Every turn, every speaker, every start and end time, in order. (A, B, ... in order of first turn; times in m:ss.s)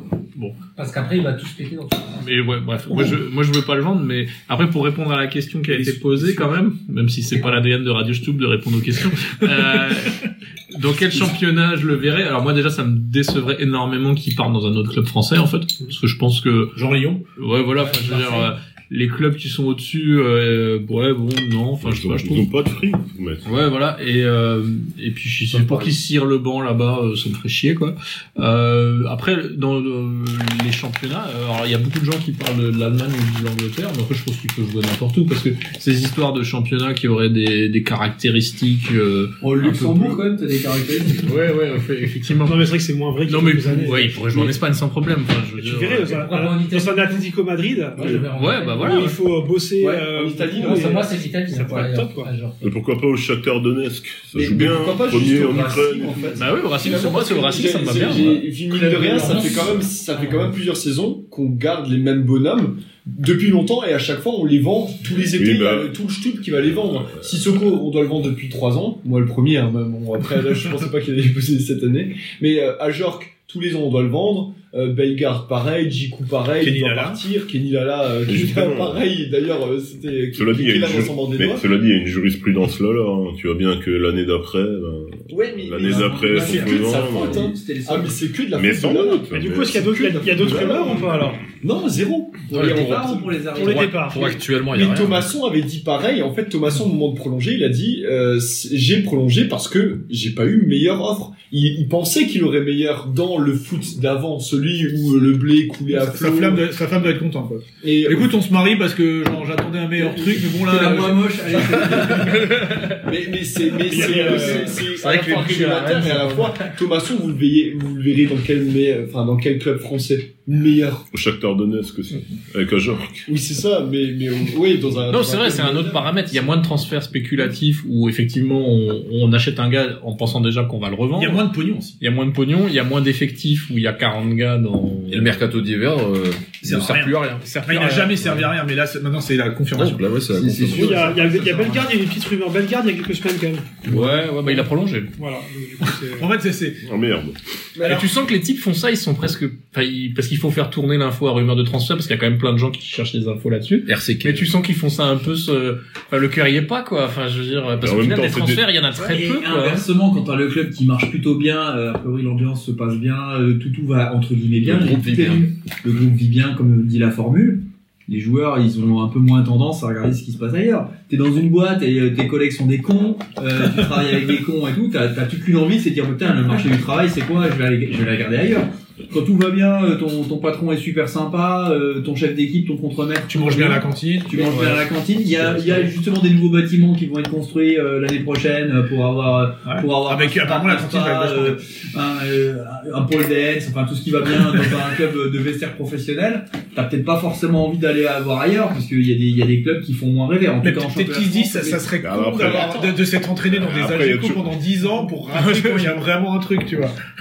0:00.8-0:02.2 A
0:02.1-0:16.8 B
0:05.7-0:06.6 C
0:16.7-0:17.2 C
0:17.4-0:22.5 B
0:17.8-0:18.5 A
0:21.8-0:23.6 D
0:23.4-0:40.2 B
0:25.5-0:25.9 E
0:39.4-0:41.3 F
0:41.2-0:42.7 B
0:42.4-0:44.6 G
0:43.2-0:46.2 B
0:45.6-0:48.2 G
0:46.1-0:47.3 A
0:48.0-0:49.1 A
0:48.0-0:48.2 H
0:48.3-0:49.2 B
0:48.8-0:52.3 G
0:49.8-0:51.0 H
0:49.8-0:50.6 F
0:50.6-0:52.7 A
0:52.6-0:56.3 D
0:54.3-1:21.6 H
0:56.4-0:58.4 B
0:58.7-1:00.5 A
1:05.3-1:05.9 D
1:06.8-1:07.4 D
1:16.6-1:17.2 C
1:18.2-1:19.0 D
1:20.3-1:27.4 D
1:25.3-1:33.3 H
1:25.8-1:28.2 F
1:25.9-1:26.7 C
1:28.5-1:29.8 D
1:29.3-1:31.4 G
1:32.5-1:34.0 F
1:32.5-1:35.3 E
1:33.6-1:34.4 G
1:34.6-1:46.6 H
1:45.9-1:51.6 C
1:47.8-1:48.3 H
1:50.0-2:01.1 H
1:50.7-1:52.4 F
1:51.9-1:53.0 B
1:53.8-1:56.8 B
1:53.9-1:54.8 G
2:01.1-2:03.3 D
2:03.3-2:06.5 H
2:05.1-2:11.5 B
2:11.1-2:12.0 C
2:12.0-2:15.4 B
2:15.1-2:18.5 E
2:16.6-2:20.1 C
2:17.4-2:18.2 B
2:19.7-2:21.2 E
2:20.4-2:21.9 F
2:20.7-2:24.6 G
2:23.8-2:25.1 B
2:25.2-2:26.3 G
2:26.1-2:26.8 C
2:26.8-2:27.4 D
2:27.8-2:28.1 H
2:27.8-2:39.9 B
2:33.9-2:34.5 E
2:37.8-2:38.7 D
2:39.0-3:21.9 F
2:44.6-2:45.5 E
3:03.3-3:04.8 C
3:09.6-3:11.6 C
3:20.6-3:27.0 C
3:22.0-3:22.8 D
3:22.4-3:22.9 A
3:23.5-3:24.5 D
3:25.3-3:26.0 B